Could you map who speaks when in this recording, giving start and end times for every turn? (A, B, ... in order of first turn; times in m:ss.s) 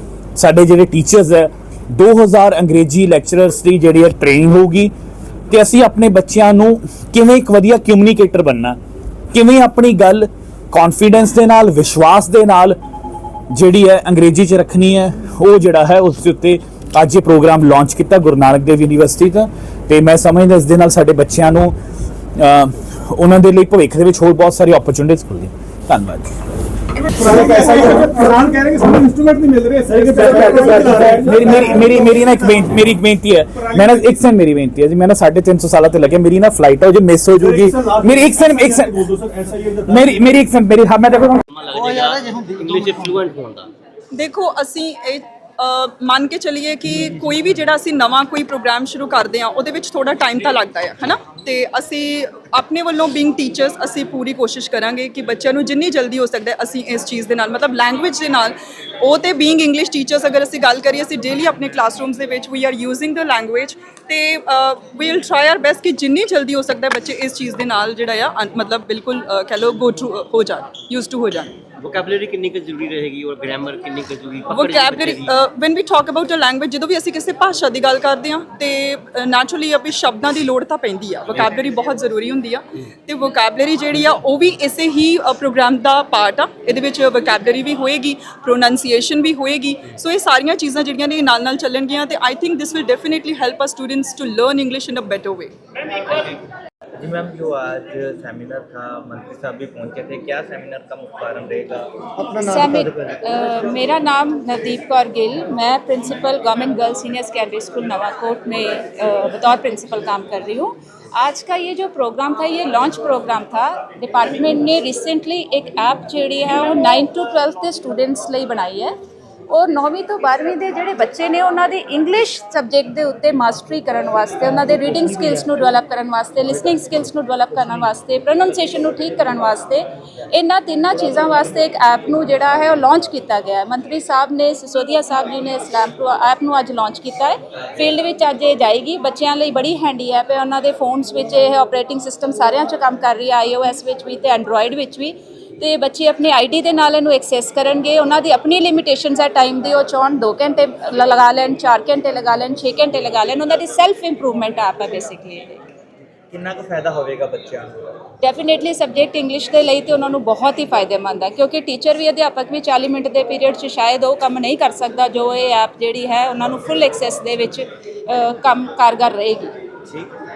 0:00.4-0:04.9 A
0:05.5-0:08.8 A
0:09.3-0:12.8 A
0:13.5-0:21.7 A
0:22.4-0:26.4 A
0:27.2-0:31.9 B
0:30.1-0:39.1 A
0:37.5-0:38.1 B
0:38.7-0:40.1 B
0:39.8-0:41.4 A
0:41.6-0:43.7 C
0:44.1-1:11.5 D
1:11.8-1:15.4 C
1:14.5-1:35.5 D
1:36.0-1:36.3 E
1:37.0-1:43.1 E
1:42.4-1:58.9 F
1:59.5-2:35.6 F
2:36.3-2:37.8 E
2:38.2-2:49.5 F